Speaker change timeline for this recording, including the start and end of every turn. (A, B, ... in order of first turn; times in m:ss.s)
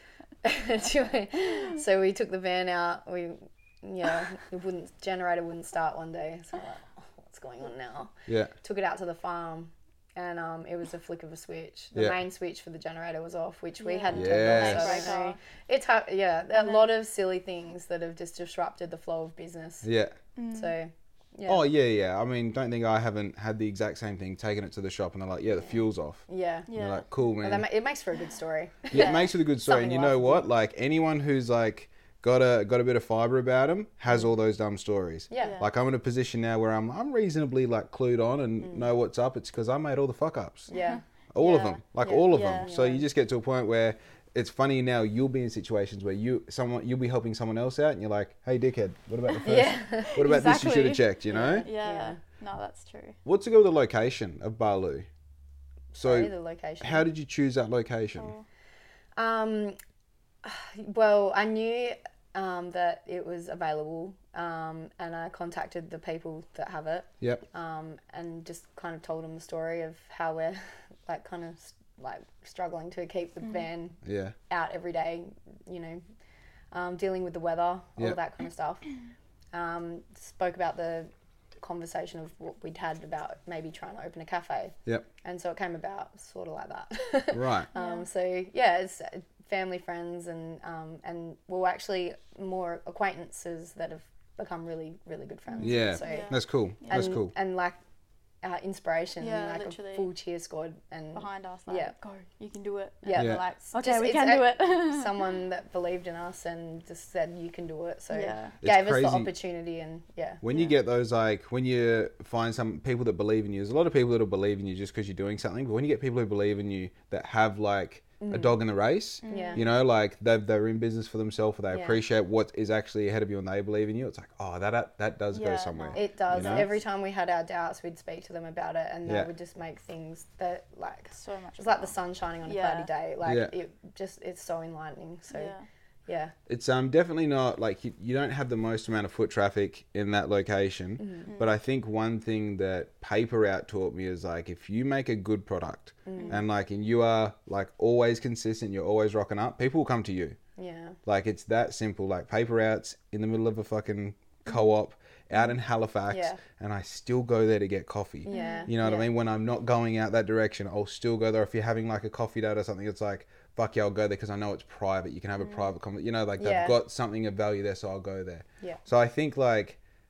0:00.4-0:19.9 A
0:08.3-0:08.5 B
0:13.8-0:15.4 C
0:14.1-0:15.1 B
0:16.6-0:16.8 C
0:19.8-0:20.2 B
0:20.4-0:20.7 C
0:20.5-0:21.6 A
0:21.5-0:27.6 B
0:25.6-0:26.7 A
0:26.7-0:27.0 C
0:27.4-0:30.4 A
0:28.9-0:40.7 B
0:35.3-0:35.6 A
0:35.4-0:35.7 C
0:38.6-0:38.9 A
0:40.7-0:41.0 A
0:40.7-0:42.7 C
0:41.3-0:51.6 B
0:42.0-0:43.0 A
0:49.4-0:50.3 A
0:50.0-0:53.2 C
0:51.3-0:52.2 A
0:53.2-0:55.1 B
0:55.9-0:57.1 A
0:56.0-0:58.3 B
0:58.2-0:58.4 C
0:59.2-0:59.8 A
1:00.4-1:16.0 A
1:14.0-1:14.3 B
1:16.7-1:18.9 A
1:19.5-1:21.1 A
1:21.6-1:36.3 A
1:27.3-1:27.7 B
1:27.7-1:28.0 C
1:35.5-1:37.2 C
1:35.6-1:37.3 B
1:36.9-1:37.8 A
1:38.4-1:41.9 A
1:39.2-1:40.1 C
1:41.2-1:45.2 C
1:43.0-1:50.4 A
1:43.1-1:43.4 B
1:48.1-1:48.6 C
1:48.6-1:49.3 B
1:50.4-2:06.7 B
1:58.2-1:58.6 A
1:59.2-1:59.6 A
1:59.2-1:59.6 C
2:01.7-2:02.0 A
2:05.3-2:06.7 C
2:05.9-2:15.5 A
2:09.0-2:09.3 B
2:11.1-2:12.9 C
2:13.2-2:13.5 B
2:15.3-2:15.6 C
2:16.1-2:16.3 A
2:16.5-2:30.4 B
2:21.0-2:21.3 A
2:21.3-2:21.5 C
2:26.0-2:26.4 A
2:26.1-2:26.4 C
2:30.6-2:31.0 A
2:31.0-2:49.8 B
2:36.1-2:36.4 A
2:38.3-2:38.7 C
2:38.3-2:39.1 A
2:45.4-2:45.7 C
2:46.4-2:46.8 A